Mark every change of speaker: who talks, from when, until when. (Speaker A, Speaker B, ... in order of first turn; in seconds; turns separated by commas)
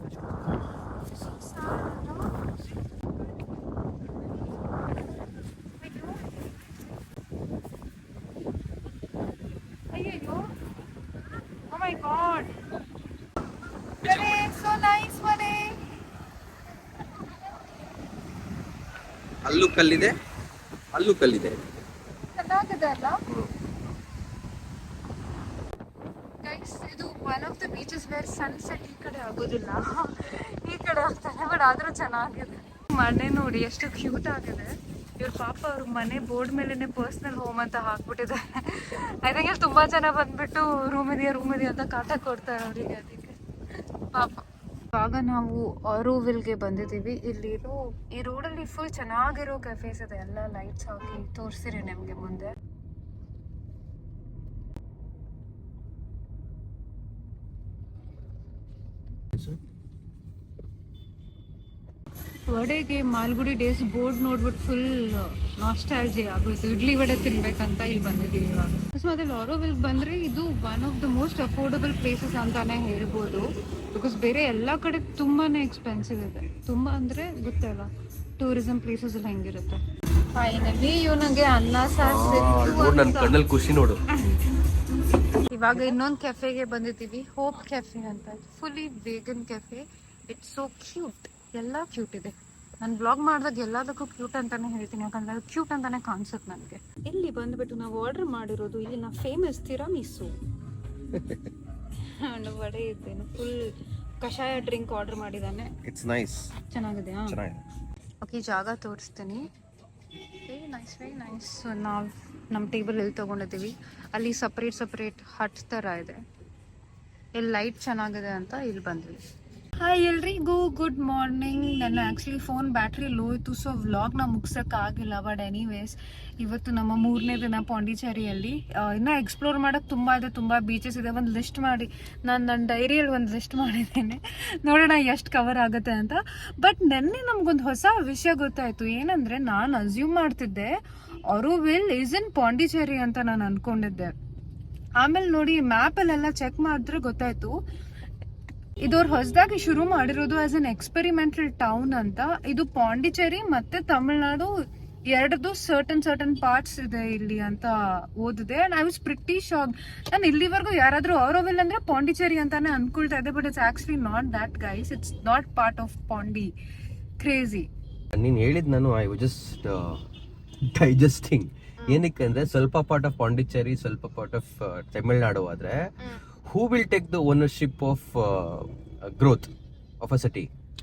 Speaker A: 1.0-2.5, Speaker A: 5.8-6.5, Speaker A: 9.9-10.5, Speaker A: 11.7-12.5, Speaker A: 14.0-15.8, Speaker B: 14.0-14.3, Speaker B: 19.4-20.1, Speaker B: 20.9-21.6, Speaker A: 22.4-23.2, Speaker A: 26.4-43.4, Speaker A: 44.1-52.5, Speaker A: 62.5-79.8, Speaker A: 80.3-83.4, Speaker B: 82.0-84.0, Speaker A: 84.1-84.6, Speaker A: 85.3-100.3, Speaker B: 101.1-101.5, Speaker A: 102.0-105.7, Speaker B: 105.8-106.5, Speaker A: 106.6-107.4, Speaker B: 107.3-107.6, Speaker A: 108.2-109.5, Speaker A: 110.4-116.2, Speaker A: 117.3-119.2, Speaker A: 119.8-140.8, Speaker A: 141.3-144.1, Speaker A: 145.0-147.6, Speaker A: 148.8-154.5, Speaker A: 155.1-166.5, Speaker A: 167.2-167.7, Speaker B: 168.1-170.0, Speaker B: 170.7-175.9, Speaker B: 176.4-180.5